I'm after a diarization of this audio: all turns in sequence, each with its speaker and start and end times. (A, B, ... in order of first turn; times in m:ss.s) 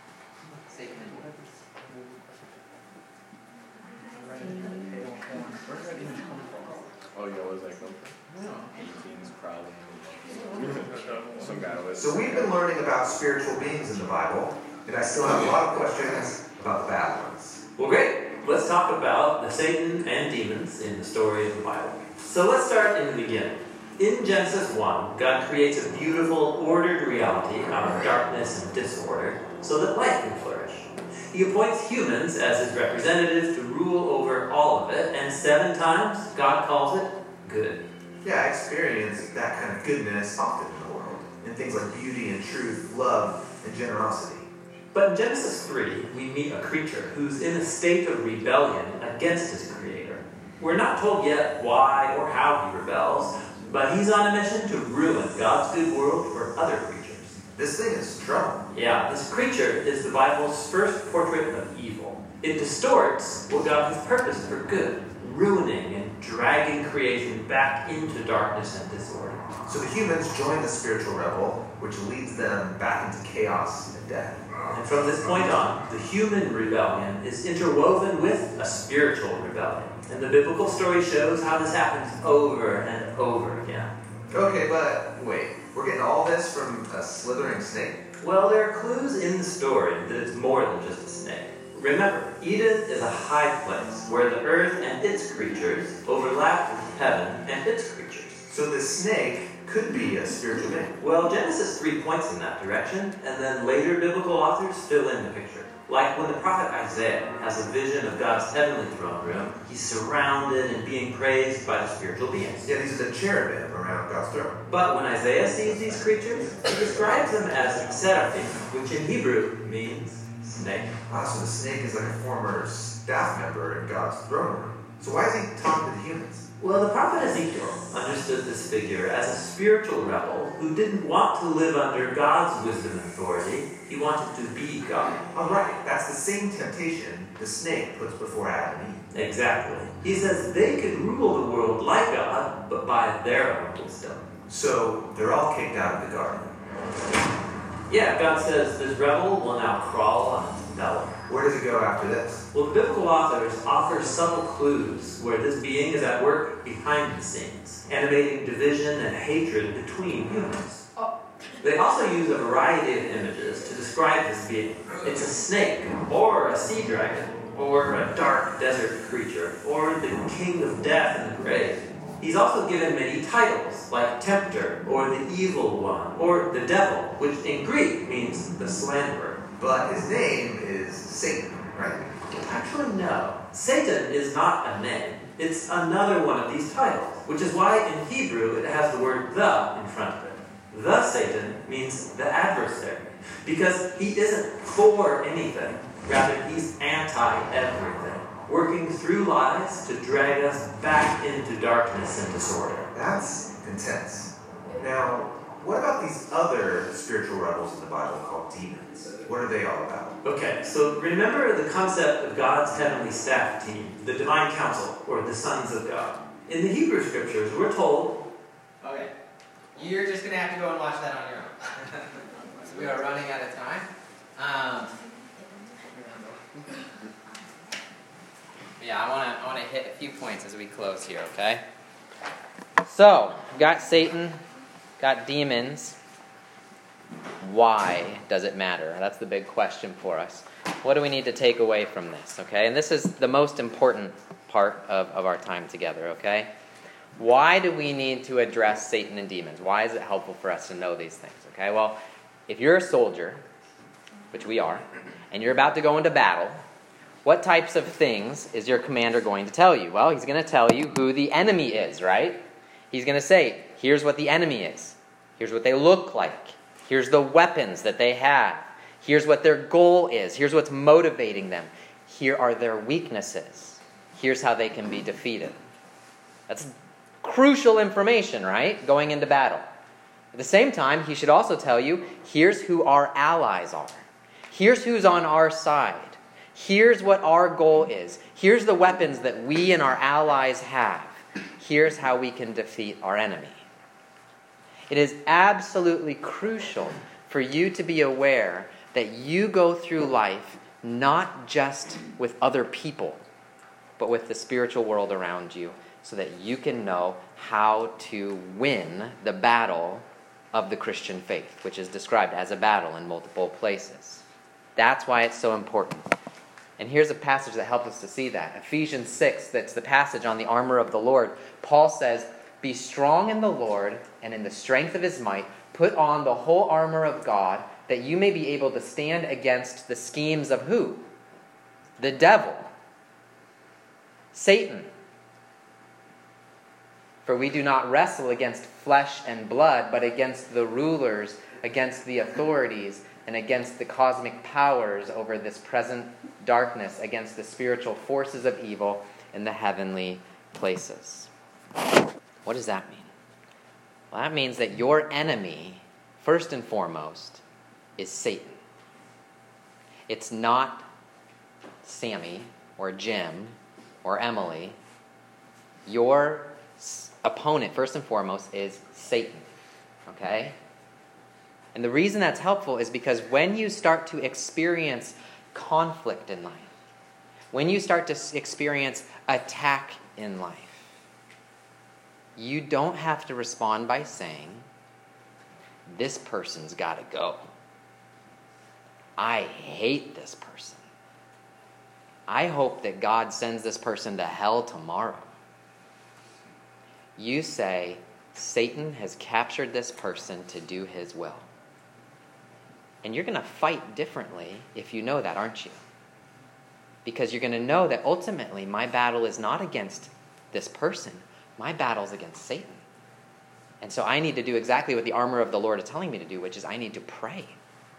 0:00.7-0:01.5 A
0:07.1-0:12.6 B
0:11.9-0:17.6 C
0:17.8-0:37.8 D
0:38.2-0:44.5 C
0:44.9-0:57.4 D
0:57.5-0:58.7 C
0:58.7-1:09.4 D
1:09.7-1:14.6 C
1:14.7-1:23.9 D
1:24.3-1:28.0 C
1:28.2-1:38.4 D
1:38.5-1:41.0 C
1:41.0-1:52.7 D
1:52.6-1:54.6 C
1:54.7-2:01.0 D
1:56.7-1:57.3 C
2:01.1-2:06.5 C
2:06.6-2:15.2 D
2:15.3-2:19.0 C
2:19.1-2:24.3 D
2:24.5-2:26.6 C
2:27.9-2:31.2 D
2:31.3-2:32.4 C
2:32.5-2:40.9 D
2:41.6-2:59.4 D
2:59.6-3:02.0 C
3:02.3-3:22.9 D
3:22.9-3:30.2 C
3:30.2-3:38.2 D
3:38.8-3:39.1 A
3:39.8-3:41.9 A
3:42.6-3:45.0 A
3:48.8-3:51.6 A
3:52.8-3:54.4 A
3:55.0-3:56.0 A
3:57.4-4:06.5 A
4:07.2-4:13.4 A
4:14.3-4:16.6 A
4:17.2-4:35.6 A
4:36.5-4:39.6 A
4:40.3-4:53.6 A
4:54.9-5:03.2 A
5:04.0-5:14.2 A
5:14.8-5:16.0 A
5:16.8-5:31.0 A
5:32.0-5:32.7 A
5:34.3-5:34.9 A
5:37.2-5:51.3 A
5:52.4-5:53.1 A
5:54.1-5:57.4 A
5:58.0-5:58.6 A
6:00.1-6:00.9 A
6:01.8-6:04.8 A
6:05.9-6:09.5 A
6:10.1-6:10.6 A
6:11.8-6:16.7 A
6:17.5-6:20.9 A
6:22.4-6:24.6 A
6:25.9-6:27.5 A
6:29.2-6:30.8 A
6:32.3-6:35.3 A
6:37.2-6:41.5 A
6:43.0-6:45.8 A
6:47.0-6:52.8 A
6:53.8-6:57.6 A